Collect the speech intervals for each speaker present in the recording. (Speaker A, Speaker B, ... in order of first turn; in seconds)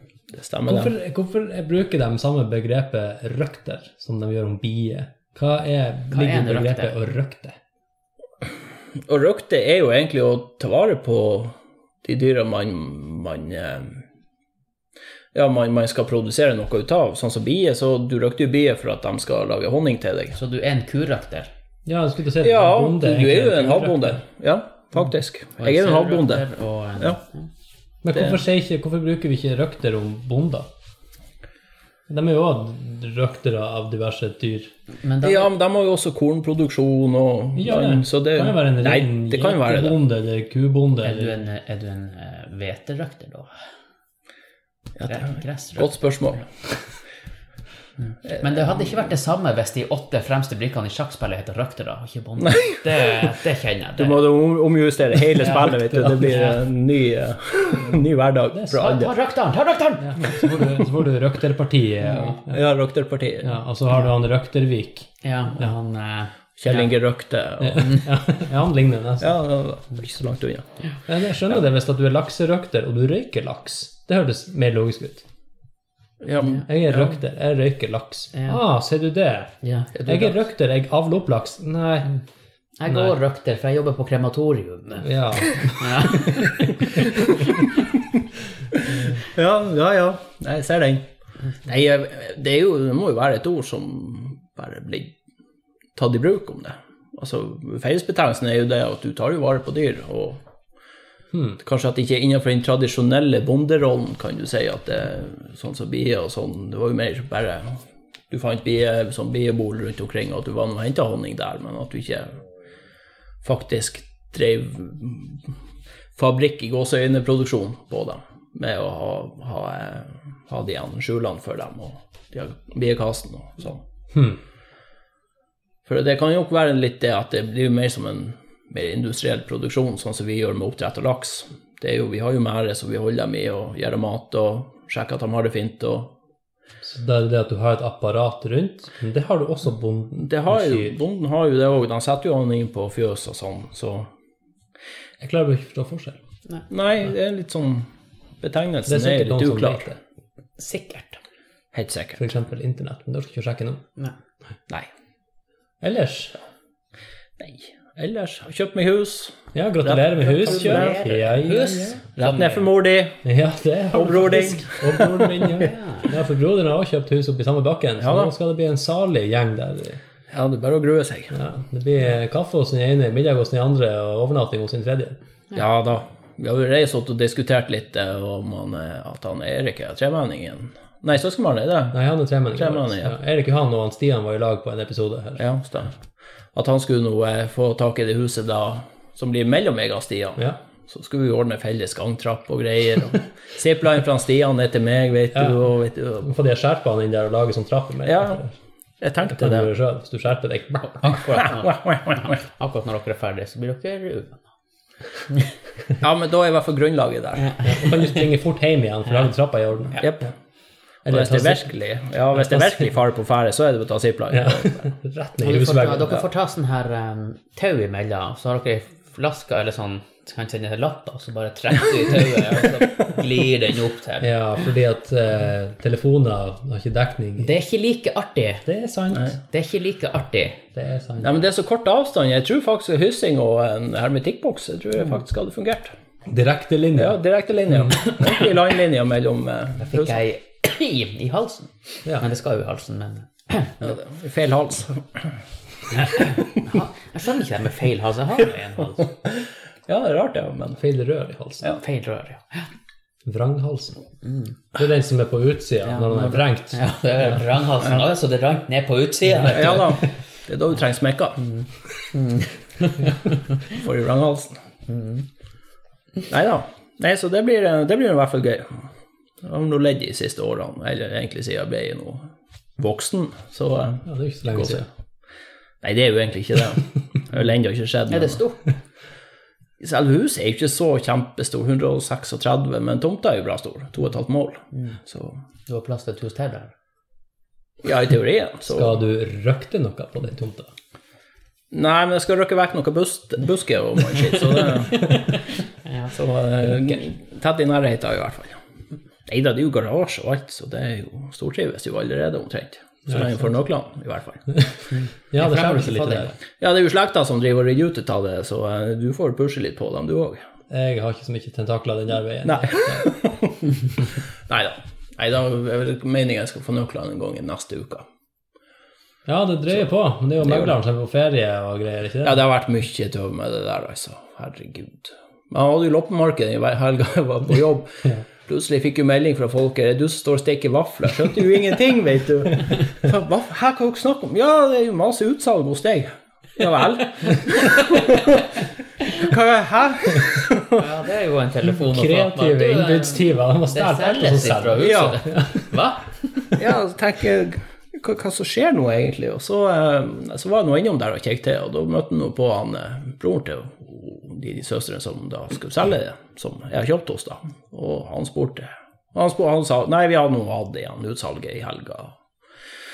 Speaker A: 0.3-0.9, 9.0-14.0, 15.3-20.4, 22.4-26.4, 28.1-28.4, 35.2-40.0, 45.0-46.5, 48.2-49.0, 52.5-53.3, 54.0-59.1, 62.5-63.6, 66.6-68.0, 69.2-70.7, 76.2-77.2, 89.1-91.0, 91.6-95.1, 96.0-100.4, 101.6-107.8, 108.3-112.3, 113.4-115.4, 116.2-123.8, 125.8-136.1, 140.2-144.1, 146.7-147.9, 148.4-149.8, 151.7-152.2, 157.4-161.5, 162.2-163.2, 163.9-165.6, 168.0-168.3, 170.3-171.3, 175.5-182.0, 182.5-183.2, 185.4-185.9, 186.5-196.3, 198.1-198.4, 199.0-199.7, 201.3-202.4, 206.0-207.5, 210.0-210.3, 211.1-214.9, 231.2-235.9, 236.9-240.2, 243.8-245.3, 249.2-250.8, 259.5-261.4, 263.6-264.6, 266.3-268.9, 269.4-272.3, 272.8-274.8, 275.8-278.4, 279.8-285.4, 287.8-288.9, 291.7-295.2, 296.1-298.6, 299.3-304.5, 306.6-310.4, 312.4-318.1, 320.4-320.7, 322.2-338.5, 339.1-340.8, 344.8-345.2, 346.5-362.1
Speaker B: 0.7-7.6, 21.9-24.2, 28.0-30.7, 32.1-34.7, 37.6-41.4, 55.9-56.4, 58.5-58.9, 60.0-62.6, 63.4-65.7, 67.6-69.3, 71.1-75.2, 76.5-79.5, 80.0-82.1, 82.9-83.1, 85.0-86.9, 101.3-101.6, 124.1-124.4, 136.8-140.9, 145.2-146.2, 148.9-150.0, 152.2-153.8, 155.8-156.3, 159.5-161.9, 163.2-170.0, 171.3-175.2, 181.9-185.4, 196.2-198.5, 199.3-201.2, 207.6-210.3, 211.1-211.7, 212.3-212.8, 214.3-216.2, 224.2-227.5, 228.7-229.3, 230.7-231.4, 236.3-237.2, 237.7-238.0, 250.8-251.7, 253.2-254.0, 254.7-256.8, 259.4-259.9, 274.1-274.9, 288.7-290.7, 303.1-303.4, 305.3-306.3, 310.7-313.1, 319.2-322.4, 341.6-345.6
Speaker C: 6.1-7.0, 20.3-21.5, 25.6-27.5, 35.0-35.5, 41.0-43.5, 45.0-46.4, 48.4-54.2, 58.7-60.4, 62.0-62.4, 65.2-66.9, 78.3-78.6, 79.6-80.3, 82.8-87.3, 150.6-151.2, 160.3-162.7, 165.6-166.1, 201.0-204.5, 207.4-208.2, 215.4-224.3, 227.4-228.6, 229.4-230.6, 239.8-243.9, 245.9-249.1, 251.6-252.7, 254.2-254.6, 255.8-260.0, 261.4-263.1, 264.9-265.2, 278.1-278.7, 285.7-286.7, 294.9-296.2, 304.9-306.4, 340.7-346.5